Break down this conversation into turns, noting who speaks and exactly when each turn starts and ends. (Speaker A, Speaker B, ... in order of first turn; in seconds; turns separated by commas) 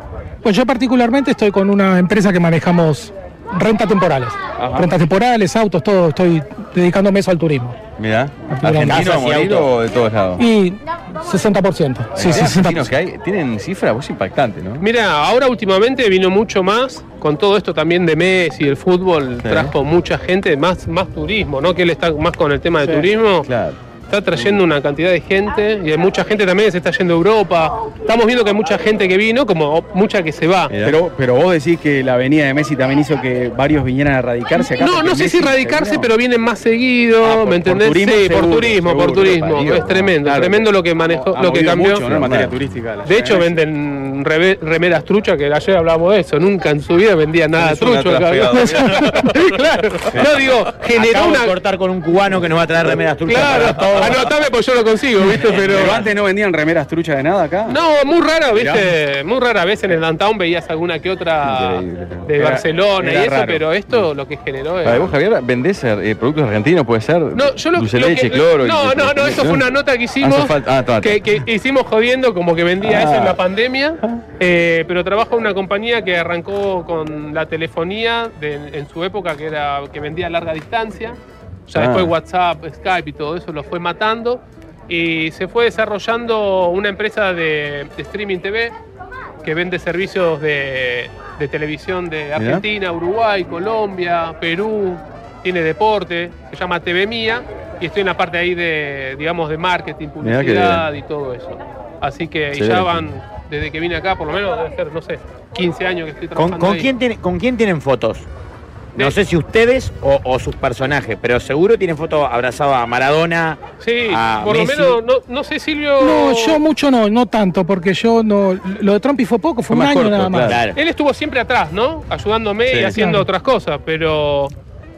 Speaker A: 0.4-7.8, Speaker B: 4.6-4.9, Speaker C: 8.0-10.4, Speaker A: 8.5-9.1, Speaker D: 8.8-9.7, Speaker A: 10.4-12.9, Speaker C: 12.2-14.8, Speaker E: 14.8-23.5, Speaker C: 19.4-19.7, Speaker C: 23.4-23.8, Speaker E: 24.1-30.7, Speaker C: 30.7-31.0, Speaker B: 30.8-36.1, Speaker E: 34.7-42.1, Speaker B: 37.2-39.4, Speaker C: 38.8-40.1, Speaker B: 40.2-43.6, Speaker C: 42.1-42.6, Speaker E: 43.0-51.5, Speaker C: 47.6-49.5, Speaker D: 51.0-54.2, Speaker E: 53.3-56.0, Speaker C: 53.3-54.1, Speaker B: 55.7-57.8, Speaker E: 57.7-65.1, Speaker B: 58.5-58.9, Speaker C: 61.5-62.3, Speaker B: 62.4-63.6, Speaker C: 64.8-69.6, Speaker E: 67.3-81.2, Speaker C: 70.2-71.2, Speaker C: 72.8-73.4, Speaker E: 81.7-88.7, Speaker C: 81.8-82.1, Speaker E: 89.4-106.9, Speaker C: 92.4-92.6, Speaker C: 100.2-100.9, Speaker C: 102.5-103.0, Speaker D: 106.4-108.3, Speaker D: 109.0-115.0, Speaker E: 113.8-116.6, Speaker A: 116.0-120.6, Speaker C: 119.7-120.6, Speaker D: 120.4-120.8, Speaker E: 120.8-124.5, Speaker C: 122.7-123.0, Speaker A: 122.9-123.3